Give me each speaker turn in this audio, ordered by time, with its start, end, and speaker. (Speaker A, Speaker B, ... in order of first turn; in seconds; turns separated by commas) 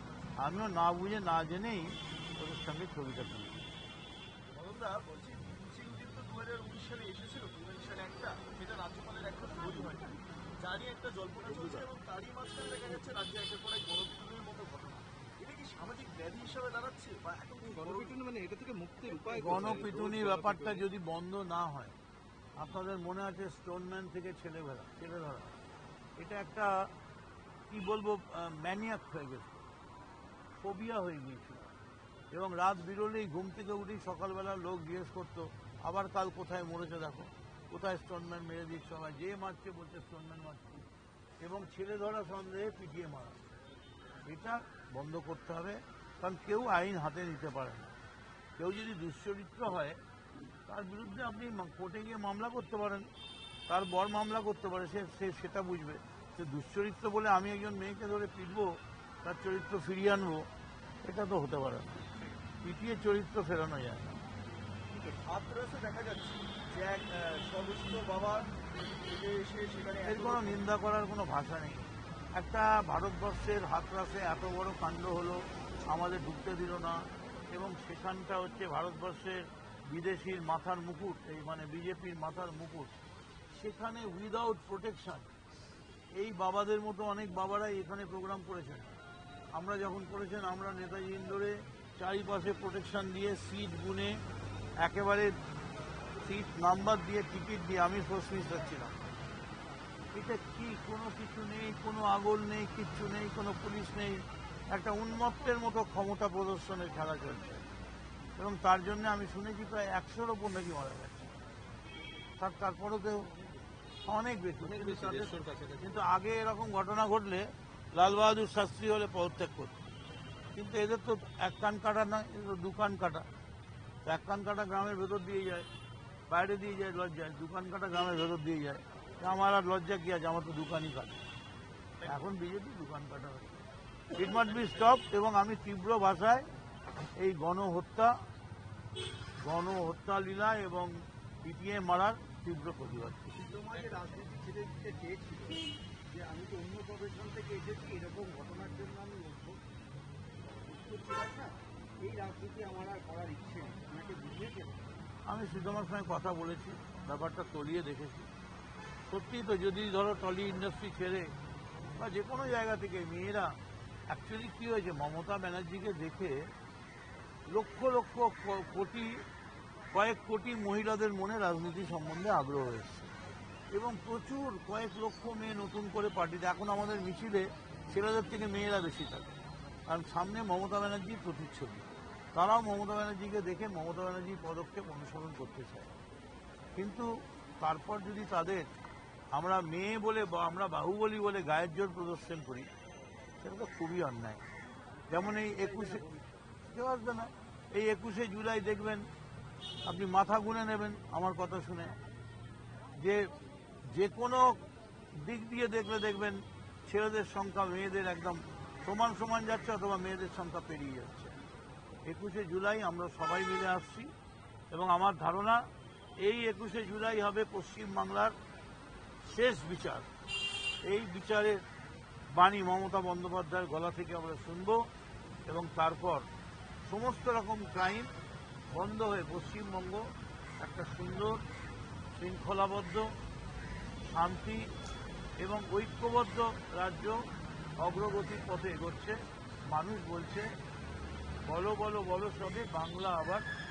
Speaker A: 0.4-3.6, Speaker B: 4.5-18.2, Speaker C: 11.5-11.8, Speaker C: 17.6-20.9, Speaker B: 19.1-19.8, Speaker A: 19.3-21.9, Speaker A: 22.6-25.5, Speaker A: 26.2-26.8, Speaker A: 27.7-29.6, Speaker A: 30.6-31.7, Speaker A: 32.3-40.8, Speaker A: 41.4-43.4, Speaker A: 44.2-47.9, Speaker A: 48.6-50.0, Speaker A: 50.6-53.1, Speaker A: 53.7-60.5, Speaker A: 61.0-62.1, Speaker A: 62.6-64.2, Speaker B: 65.2-70.6, Speaker A: 70.0-83.0, Speaker A: 83.5-85.3, Speaker A: 86.2-88.9, Speaker A: 89.5-94.2, Speaker A: 94.8-95.3, Speaker A: 96.2-99.0, Speaker A: 100.1-107.7, Speaker A: 108.4-111.3, Speaker A: 112.4-113.4, Speaker A: 114.0-119.8, Speaker C: 114.6-116.0, Speaker A: 120.5-123.2, Speaker A: 124.0-125.7, Speaker A: 126.3-131.3, Speaker A: 132.0-136.4, Speaker A: 137.2-138.1, Speaker A: 139.4-140.9, Speaker A: 141.4-143.4, Speaker D: 143.4-149.6, Speaker D: 150.4-154.8, Speaker A: 155.3-158.3, Speaker A: 159.1-161.3, Speaker A: 161.9-163.6, Speaker A: 164.1-166.4, Speaker A: 167.5-169.2, Speaker A: 169.9-173.1, Speaker A: 173.7-179.3, Speaker A: 179.9-185.9, Speaker A: 186.8-187.1, Speaker A: 187.6-188.7, Speaker A: 189.3-192.7, Speaker A: 193.4-194.4, Speaker D: 195.1-196.4, Speaker A: 195.1-196.0, Speaker A: 196.7-199.1, Speaker A: 199.8-201.9, Speaker A: 203.0-203.3, Speaker A: 203.9-204.6, Speaker A: 205.2-211.3, Speaker A: 212.1-214.1, Speaker A: 214.7-215.7, Speaker A: 216.2-218.3, Speaker A: 219.2-220.1, Speaker A: 220.8-221.6, Speaker A: 222.3-224.8, Speaker A: 225.5-226.3, Speaker A: 226.8-228.1, Speaker A: 228.7-230.1, Speaker A: 230.6-231.4, Speaker A: 232.2-233.1, Speaker A: 234.2-234.6, Speaker A: 235.4-237.2, Speaker A: 237.8-239.2, Speaker A: 239.7-240.5, Speaker A: 241.4-243.5